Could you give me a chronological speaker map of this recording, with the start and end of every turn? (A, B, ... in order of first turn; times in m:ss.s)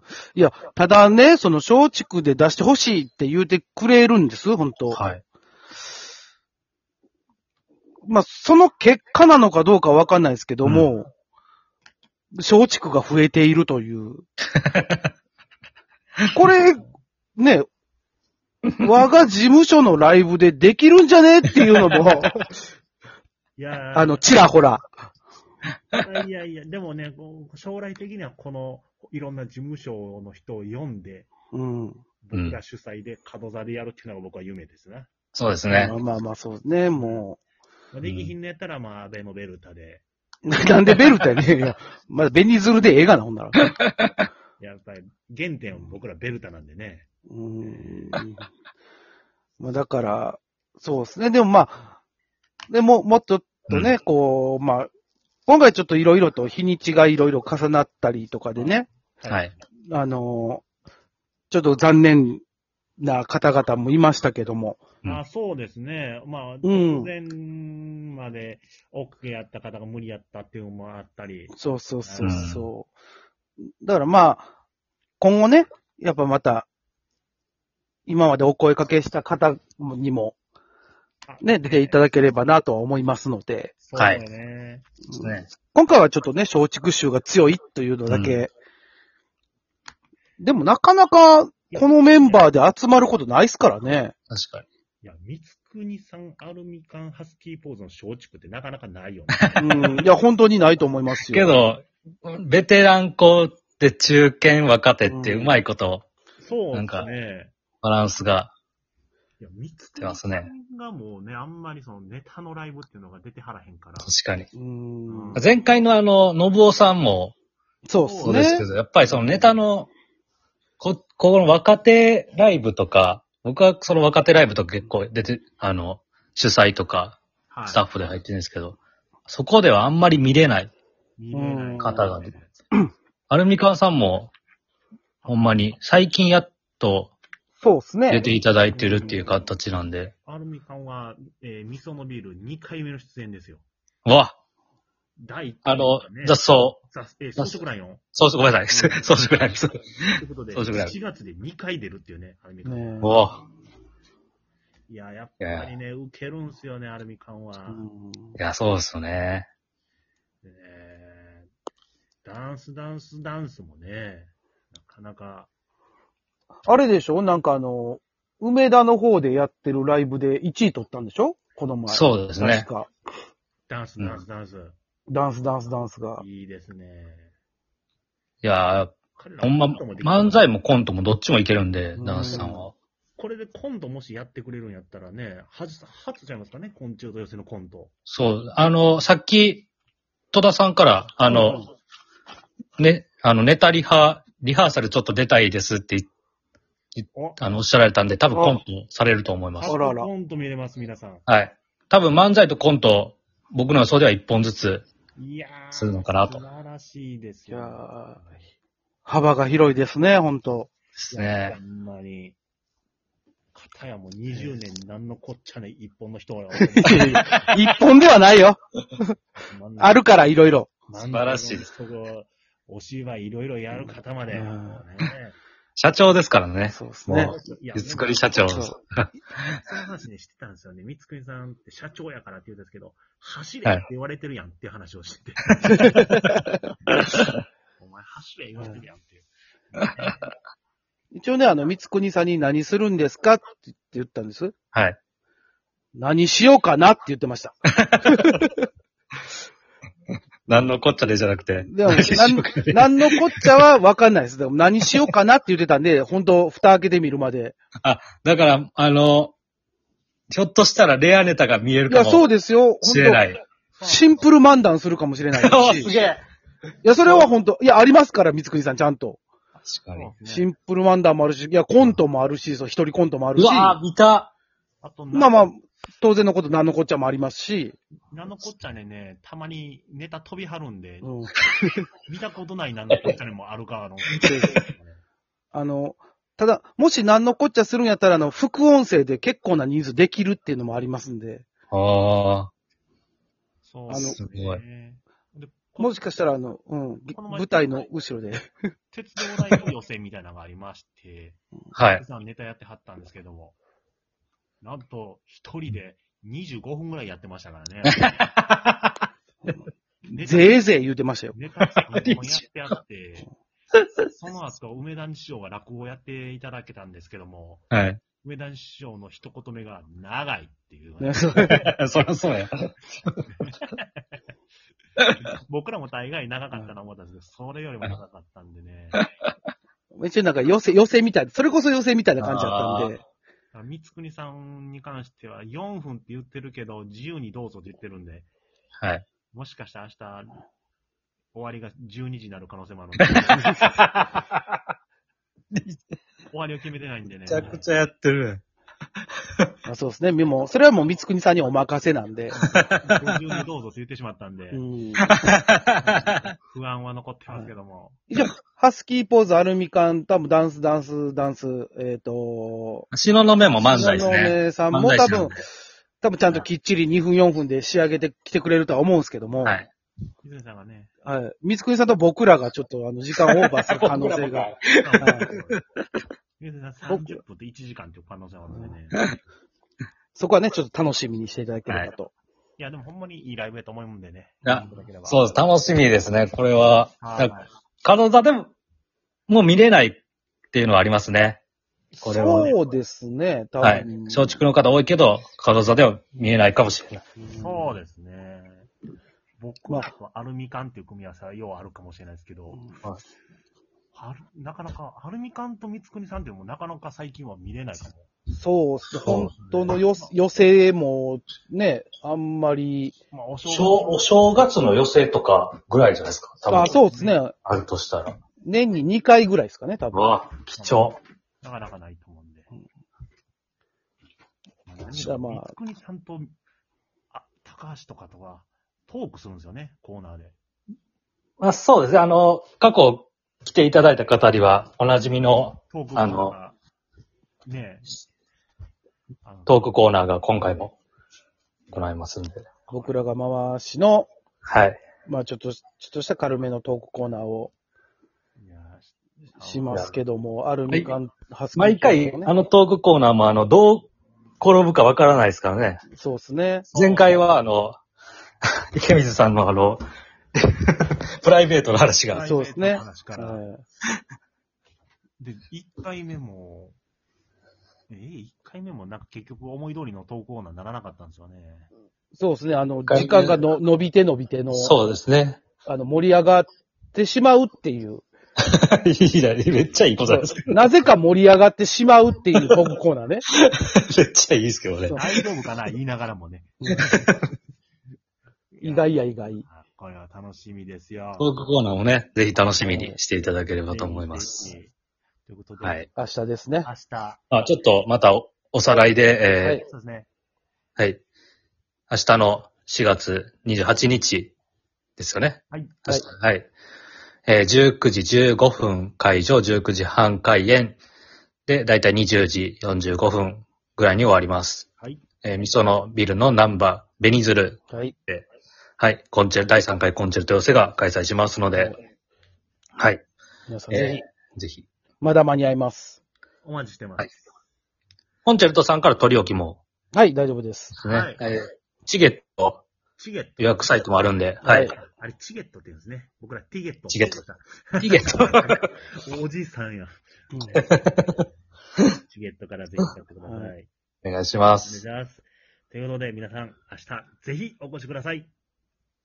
0:00.3-0:05.0 A
0:04.9-0:05.2 B
0:08.0-0:11.1 A
0:10.6-0:10.9 B
0:12.3-0:14.2 A
0:14.6-0:15.0 B
0:16.3-0:16.8 A
0:17.4-0:17.6 A
0:18.8-0:22.3 A
0:23.6-0:24.5 C
0:23.9-0:24.8 A
0:25.9-0:31.3 C
0:31.5-0:32.0 A
0:32.2-0:35.1 C
0:32.3-0:32.6 B
0:35.3-0:35.9 B
0:35.7-0:37.4 A
0:35.8-0:36.2 C
0:36.9-0:37.2 C
0:37.9-0:40.0 C
0:38.0-0:38.3 B
0:40.4-0:43.6 A
0:43.6-0:44.2 B
0:44.6-0:47.1 C
0:47.3-0:48.4 A
0:47.6-0:48.2 C
0:49.6-0:51.9 A
0:52.7-0:54.9 A
0:55.5-0:58.9 A
0:58.6-0:59.4 C
0:59.9-1:00.6 A
1:01.5-1:02.4 A
1:03.0-1:04.8 A
1:05.0-1:12.4 C
1:06.6-1:07.1 A
1:11.5-1:12.9 A
1:12.2-1:12.7 B
1:13.8-1:14.4 A
1:15.2-1:16.7 A
1:18.0-1:20.3 A
1:21.2-1:22.0 C
1:21.4-1:23.7 A
1:23.8-1:24.8 C
1:24.0-1:24.2 B
1:25.1-1:28.5 A
1:25.2-1:25.5 B
1:28.1-1:28.4 B
1:30.4-1:34.1 A
1:31.7-1:32.5 C
1:34.3-1:34.6 B
1:35.0-1:40.0 C
1:39.6-1:41.5 A
1:41.2-1:46.0 B
1:45.1-1:45.6 A
1:46.4-1:47.5 C
1:46.7-1:47.1 B
1:47.8-1:48.5 B
1:49.4-1:54.1 C
1:50.0-1:50.5 B
1:54.0-1:54.5 B
1:54.5-1:55.4 A
1:55.1-1:55.5 C
1:55.4-1:57.3 B
1:57.9-1:58.6 A
1:58.0-1:59.6 C
1:58.2-1:59.9 B
2:00.8-2:10.7 B
2:07.5-2:07.8 C
2:11.2-2:12.5 C
2:11.3-2:12.1 A
2:11.8-2:12.3 B
2:13.3-2:14.3 B
2:15.2-2:15.5 C
2:15.3-2:17.1 B
2:17.6-2:18.2 A
2:18.1-2:20.1 B
2:18.7-2:19.5 C
2:20.2-2:23.6 C
2:24.0-2:24.4 B
2:25.2-2:28.0 C
2:25.6-2:26.8 B
2:28.1-2:29.8 B
2:28.7-2:33.0 C
2:30.5-2:31.0 B
2:32.6-2:33.2 A
2:33.0-2:33.4 B
2:34.9-2:37.8 C
2:35.4-2:35.7 B
2:37.7-2:38.4 A
2:38.4-2:39.5 B
2:40.4-2:41.5 C
2:42.2-2:45.5 C
2:46.6-2:52.9 A
2:51.9-2:52.7 B
2:53.7-2:54.8 C
2:55.1-2:56.2 A
2:56.2-2:57.3 C
2:58.4-3:02.7 B
2:59.1-3:00.5 C
3:02.0-3:02.6 A
3:03.2-3:07.9 C
3:08.1-3:09.7 B
3:10.3-3:11.6 B
3:11.3-3:11.6 A
3:12.8-3:16.1 B
3:17.0-3:19.7 B
3:17.1-3:17.4 C
3:18.3-3:18.6 A
3:19.6-3:21.2 C
3:19.7-3:20.1 A
3:21.3-3:24.8 B
3:25.2-3:28.5 C
3:25.7-3:26.4 B
3:27.5-3:28.2 A
3:29.0-3:30.7 A
3:31.0-3:31.6 B
3:31.1-3:32.4 C
3:33.5-3:37.5 C
3:36.5-3:39.2 A
3:39.5-3:40.1 C
3:39.8-3:40.7 A
3:40.9-3:45.3 C
3:41.0-3:41.7 B
3:43.8-3:44.8 A
3:45.8-3:49.0 B
3:46.7-3:47.3 A
3:47.1-3:48.5 C
3:48.4-3:48.8 A
3:49.3-3:56.4 C
3:55.6-3:56.3 B
3:57.8-4:00.3 C
4:01.1-4:04.5 A
4:05.9-4:07.6 A
4:07.7-4:08.5 B
4:10.4-4:13.4 B
4:11.6-4:17.6 A
4:17.8-4:19.3 B
4:20.3-4:22.3 B
4:21.9-4:23.2 A
4:22.8-4:23.4 B
4:23.7-4:24.3 C
4:23.8-4:25.9 A
4:25.4-4:26.2 B
4:26.8-4:29.2 A
4:29.6-4:30.1 B
4:29.9-4:30.5 C
4:30.2-4:33.8 A
4:33.4-4:34.3 B
4:34.8-4:35.5 C
4:35.1-4:37.8 A
4:38.1-4:41.1 C
4:41.0-4:41.9 A
4:42.0-4:45.0 C
4:44.2-4:44.6 B
4:44.2-4:44.6 A
4:45.5-4:51.4 A
4:51.7-4:52.5 B
4:53.6-4:56.1 C
4:53.9-4:54.2 A
4:54.0-4:54.6 B
4:55.8-4:58.5 A
4:57.1-4:57.9 C
4:58.9-5:01.4 C
5:01.7-5:02.0 B
5:02.0-5:03.6 C
5:04.6-5:08.2 C
5:08.1-5:08.4 B
5:10.1-5:11.3 A
5:10.1-5:10.6 C
5:11.3-5:13.3 C
5:11.9-5:12.4 B
5:14.1-5:17.7 C
5:17.7-5:18.0 B
5:18.2-5:21.6 C
5:21.0-5:21.6 A
5:21.4-5:23.2 B
5:25.2-5:29.0 C
5:29.9-5:33.0 A
5:32.2-5:32.9 B
5:33.5-5:38.3 C
5:38.8-5:39.0 B
5:39.3-5:40.4 C
5:41.3-5:43.9 C
5:43.0-5:43.7 B
5:46.3-5:47.7 C
5:47.3-5:48.4 B
5:49.6-5:52.4 A
5:52.3-5:54.6 C
5:52.4-5:52.8 B
5:54.5-5:55.1 A
5:55.1-5:55.9 B
5:55.7-5:58.0 C
5:58.1-6:02.9 A
6:02.9-6:05.3 B
6:03.6-6:05.4 A
6:06.0-6:09.6 A
6:09.4-6:09.7 B
6:10.2-6:10.9 C
6:11.0-6:15.3 A
6:13.2-6:15.6 B
6:14.8-6:15.6 C
6:16.4-6:19.0 C
6:16.9-6:17.2 A
6:20.1-6:22.1 A
6:21.7-6:21.9 B
6:22.6-6:25.4 C
6:24.4-6:28.5 B
6:27.0-6:27.5 C
6:29.3-6:30.0 B
6:30.5-6:31.4 B
6:31.9-6:32.7 C
6:32.0-6:32.5 B
6:32.0-6:34.4 A
6:33.6-6:37.0 B
6:37.2-6:37.7 A
6:37.4-6:38.7 C
6:39.4-6:42.6 C
6:43.9-6:48.1 C
6:48.3-6:52.9 A
6:49.0-6:49.3 B
6:49.3-6:50.1 C
6:53.1-6:54.4 C
6:53.4-6:56.8 B
6:56.5-6:57.3 A
6:56.7-6:57.2 C
6:57.4-6:58.2 B
6:58.4-7:00.0 A
6:59.9-7:01.0 B
7:00.6-7:02.5 C
7:04.7-7:06.3 C
7:04.9-7:05.5 A
7:07.1-7:10.4 C
7:11.4-7:16.3 B
7:15.7-7:16.6 C
7:17.4-7:18.0 C
7:19.2-7:19.7 C
7:19.5-7:20.8 B
7:21.7-7:22.5 B
7:22.7-7:23.0 C
7:22.7-7:24.1 A
7:24.4-7:24.8 B
7:25.0-7:27.5 A
7:28.4-7:30.0 C
7:29.4-7:32.3 A
7:31.5-7:33.9 B
7:34.4-7:35.8 B
7:35.9-7:36.7 A
7:36.7-7:37.4 C
7:36.7-7:37.8 B
7:38.7-7:39.8 B
7:40.4-7:42.3 B
7:42.1-7:43.4 C
7:42.2-7:43.6 A
7:45.2-7:46.8 C
7:47.9-7:51.7 C
7:52.1-7:54.7 A
7:52.9-7:53.4 B
7:54.5-7:55.4 B
7:55.6-7:58.0 A
7:58.5-8:00.5 B
8:00.0-8:03.2 A
8:03.4-8:05.0 B
8:04.9-8:07.1 C
8:06.7-8:07.2 B
8:08.5-8:11.4 C
8:08.6-8:09.4 A
8:11.2-8:14.5 B
8:12.6-8:13.0 A
8:13.7-8:14.7 C
8:15.2-8:15.9 C
8:15.6-8:15.9 B
8:16.0-8:16.7 A
8:16.6-8:17.2 C
8:17.3-8:19.6 B
8:19.4-8:19.6 A
8:19.5-8:20.1 C
8:21.9-8:24.3 B
8:25.0-8:26.5 B
8:25.5-8:25.8 C
8:27.2-8:30.8 B
8:31.5-8:34.6 B
8:35.2-8:38.3 B
8:37.7-8:37.9 A
8:38.8-8:41.7 B
8:43.5-8:44.0 A
8:43.7-8:44.6 B
8:45.0-8:46.0 A
8:46.4-8:47.1 C
8:48.2-8:49.6 B
8:49.9-8:50.7 A
8:50.8-8:52.6 B
8:50.8-8:51.2 C
8:53.0-9:00.0 C
8:53.4-8:54.7 B
8:54.4-8:54.7 A
8:56.9-8:57.2 B
8:57.8-8:58.6 B
9:00.3-9:00.6 A
9:00.5-9:01.2 B
9:02.0-9:03.7 C
9:03.2-9:03.5 A
9:04.0-9:04.8 B
9:04.6-9:08.3 C